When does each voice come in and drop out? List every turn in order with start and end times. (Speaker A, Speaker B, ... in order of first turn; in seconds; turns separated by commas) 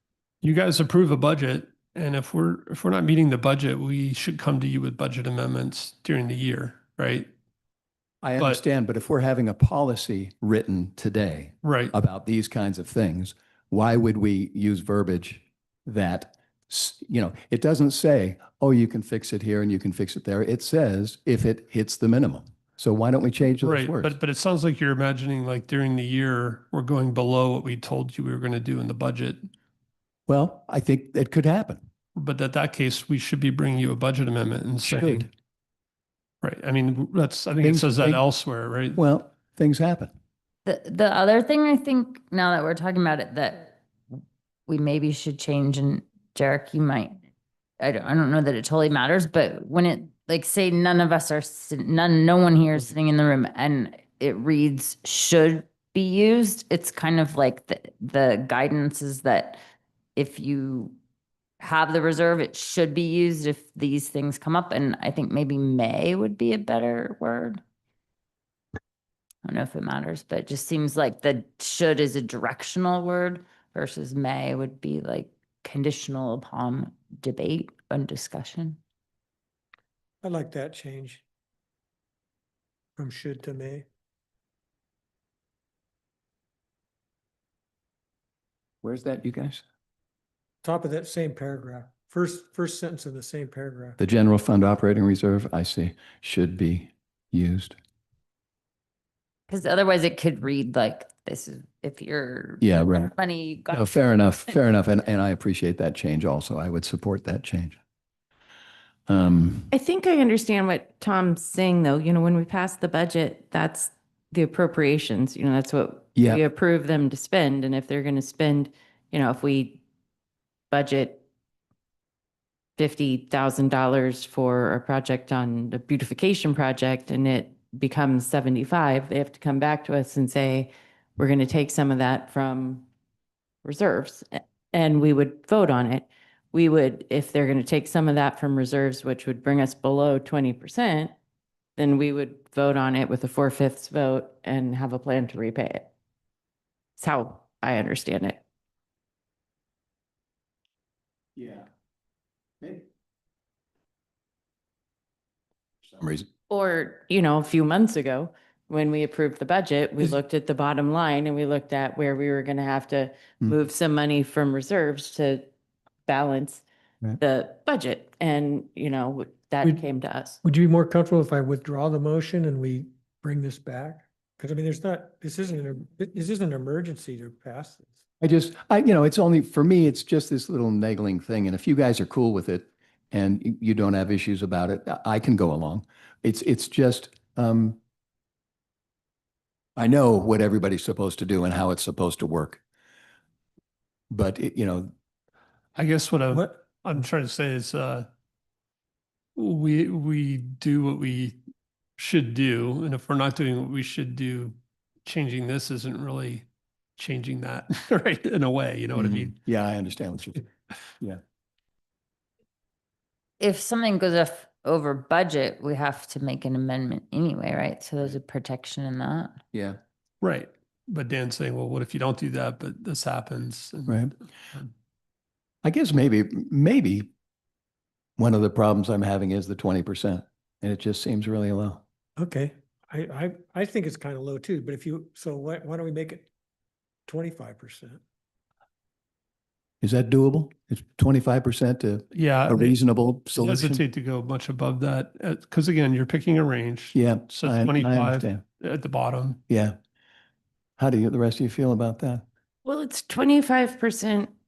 Speaker A: 0.4-7.3, Speaker B: 8.2-24.2, Speaker A: 11.6-11.9, Speaker A: 23.6-29.5, Speaker B: 30.3-31.8, Speaker A: 32.1-35.3, Speaker B: 34.8-35.3, Speaker A: 36.4-39.0, Speaker B: 37.6-38.2, Speaker B: 39.0-40.1, Speaker C: 40.6-43.8, Speaker C: 44.7-47.2, Speaker C: 47.8-59.6, Speaker C: 60.2-61.0, Speaker C: 61.6-67.6, Speaker C: 69.4-78.8, Speaker D: 80.2-81.2, Speaker D: 83.0-83.9, Speaker B: 88.8-89.6, Speaker D: 90.6-94.0, Speaker B: 94.0-97.8, Speaker C: 99.5-104.0, Speaker B: 102.6-103.1, Speaker B: 103.7-107.8, Speaker B: 109.1-109.7, Speaker E: 109.7-119.8, Speaker B: 116.2-116.4, Speaker E: 120.7-121.2, Speaker E: 122.8-132.9, Speaker E: 133.6-141.1, Speaker E: 141.8-145.9, Speaker E: 147.0-148.4, Speaker B: 151.4-151.7, Speaker B: 155.9-156.3, Speaker E: 156.5-165.5, Speaker E: 166.1-166.7, Speaker E: 167.2-170.4, Speaker D: 170.4-178.0, Speaker B: 178.2-187.8, Speaker B: 189.8-192.6, Speaker B: 194.1-194.9, Speaker A: 195.8-198.1, Speaker A: 199.4-201.4, Speaker A: 202.0-206.5, Speaker A: 207.0-209.3, Speaker B: 208.9-210.4, Speaker C: 213.4-219.4, Speaker A: 220.2-224.0, Speaker B: 223.9-224.1, Speaker B: 225.6-227.1, Speaker B: 228.2-231.8, Speaker D: 232.2-236.3, Speaker D: 237.1-238.0, Speaker B: 239.8-243.8, Speaker A: 242.1-242.8, Speaker A: 243.3-249.4, Speaker B: 246.9-248.4, Speaker B: 249.5-249.8, Speaker B: 250.8-252.2, Speaker E: 252.7-254.3